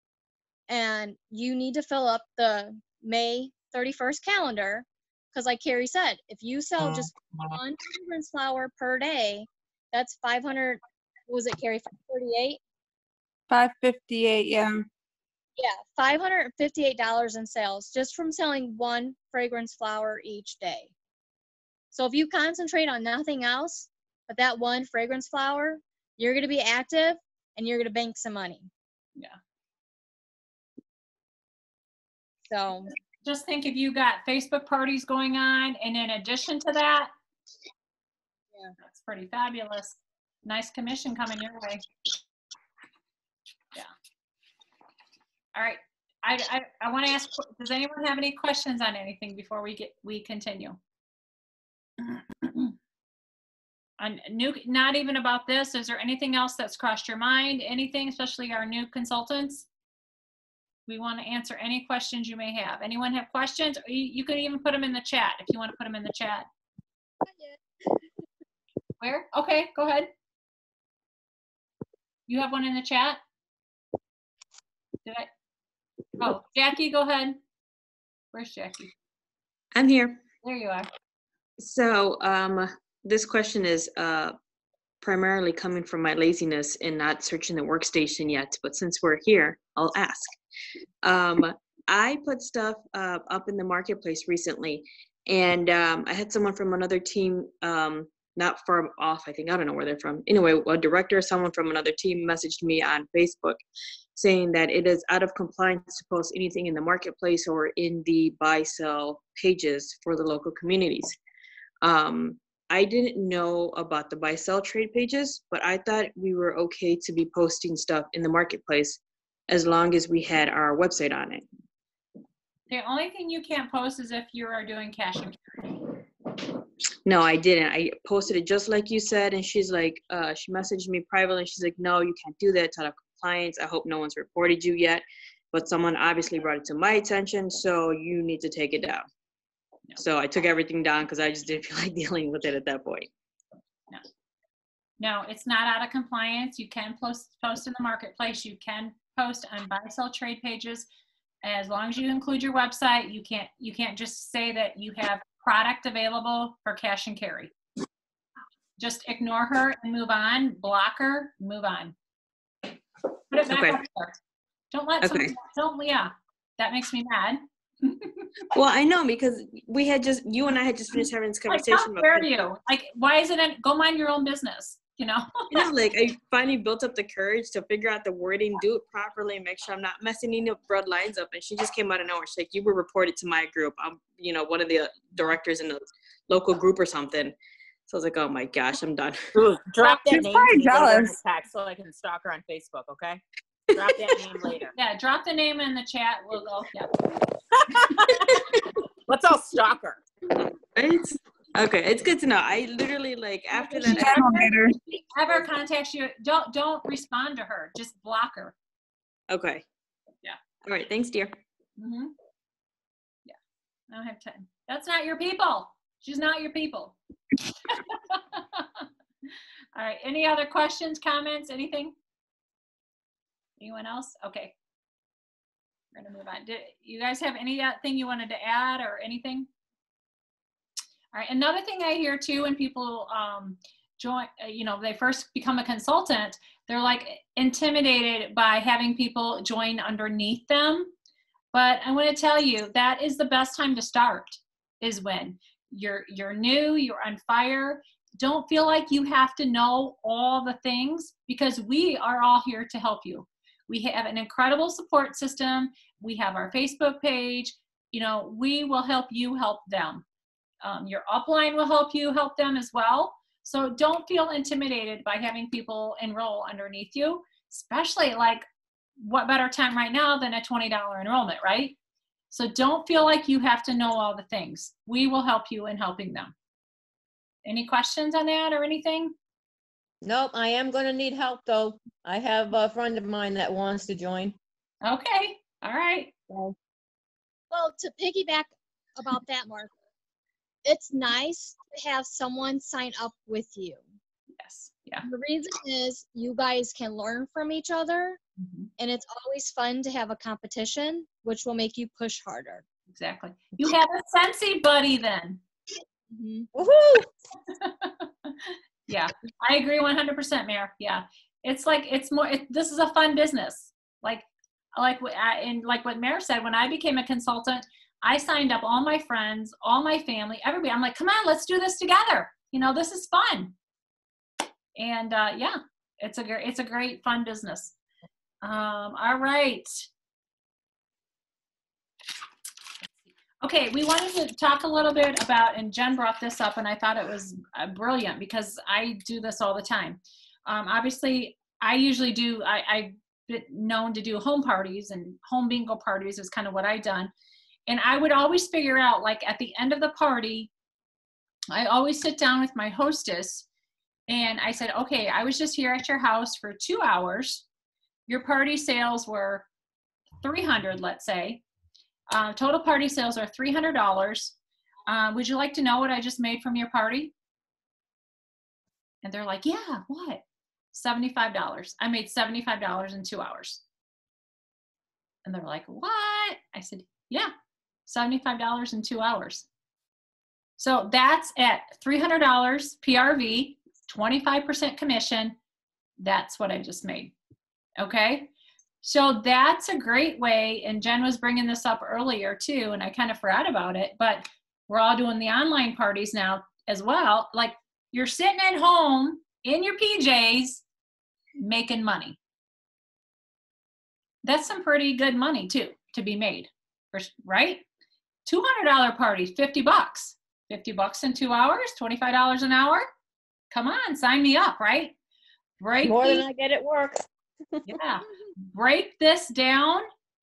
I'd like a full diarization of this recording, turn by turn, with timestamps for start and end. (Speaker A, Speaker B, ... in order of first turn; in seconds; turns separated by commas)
Speaker A: 0.7-12.6, Speaker B: 13.5-14.8, Speaker A: 15.6-20.9, Speaker A: 21.9-28.7, Speaker A: 32.5-32.9, Speaker C: 33.2-37.1, Speaker C: 38.8-41.8, Speaker C: 45.5-50.8, Speaker C: 52.1-52.7, Speaker C: 54.0-59.7, Speaker C: 60.9-66.5, Speaker C: 69.0-70.1, Speaker C: 72.3-73.2, Speaker C: 76.2-77.4, Speaker C: 78.3-78.9, Speaker D: 79.7-80.2, Speaker C: 80.4-80.9, Speaker D: 81.6-84.3, Speaker D: 85.0-90.3, Speaker D: 91.0-103.6, Speaker D: 104.2-111.2, Speaker D: 111.8-121.4, Speaker C: 122.7-125.5, Speaker D: 127.0-139.0, Speaker D: 140.0-143.1, Speaker C: 145.0-150.9, Speaker C: 151.4-157.5, Speaker C: 158.8-161.9, Speaker C: 163.3-164.2, Speaker D: 163.4-163.8, Speaker C: 164.7-168.3, Speaker D: 165.0-165.3, Speaker D: 168.5-172.3, Speaker C: 171.5-175.7, Speaker D: 175.5-187.3, Speaker D: 187.9-189.3, Speaker E: 189.3-193.2, Speaker B: 189.8-191.2, Speaker E: 193.7-194.7, Speaker C: 194.7-196.9, Speaker E: 199.1-200.0, Speaker D: 200.6-204.2, Speaker C: 203.5-208.5, Speaker B: 203.9-204.8, Speaker D: 209.3-209.6, Speaker D: 210.6-211.3, Speaker C: 211.8-212.1, Speaker C: 213.9-216.9, Speaker C: 217.7-218.8, Speaker C: 219.7-221.9, Speaker C: 223.6-224.5, Speaker C: 225.9-229.5, Speaker C: 231.1-240.9, Speaker C: 241.5-260.0, Speaker C: 260.6-268.4, Speaker C: 269.0-271.8, Speaker C: 272.3-276.3, Speaker C: 277.4-279.1, Speaker F: 280.0-284.4, Speaker C: 284.8-286.1, Speaker A: 287.5-289.7, Speaker A: 290.6-293.8, Speaker C: 294.4-295.1, Speaker A: 295.0-298.2, Speaker C: 298.4-298.7, Speaker A: 298.8-302.6, Speaker C: 302.9-305.4, Speaker A: 306.1-306.5, Speaker C: 307.5-323.5, Speaker C: 324.8-327.7, Speaker C: 328.4-329.9, Speaker C: 333.4-347.1, Speaker C: 347.7-350.5, Speaker C: 351.5-353.5, Speaker C: 354.1-357.4, Speaker C: 358.1-359.5, Speaker C: 360.2-361.4, Speaker C: 362.1-364.3, Speaker C: 364.9-367.1, Speaker C: 369.0-373.6, Speaker C: 375.2-377.3, Speaker C: 377.9-379.5, Speaker C: 380.6-385.4, Speaker C: 386.0-387.1, Speaker C: 387.8-388.3, Speaker C: 388.8-400.6, Speaker C: 401.4-402.2, Speaker C: 404.2-407.6, Speaker C: 408.2-412.9, Speaker C: 413.5-414.9, Speaker C: 415.6-416.2, Speaker F: 415.8-417.1, Speaker C: 417.6-419.9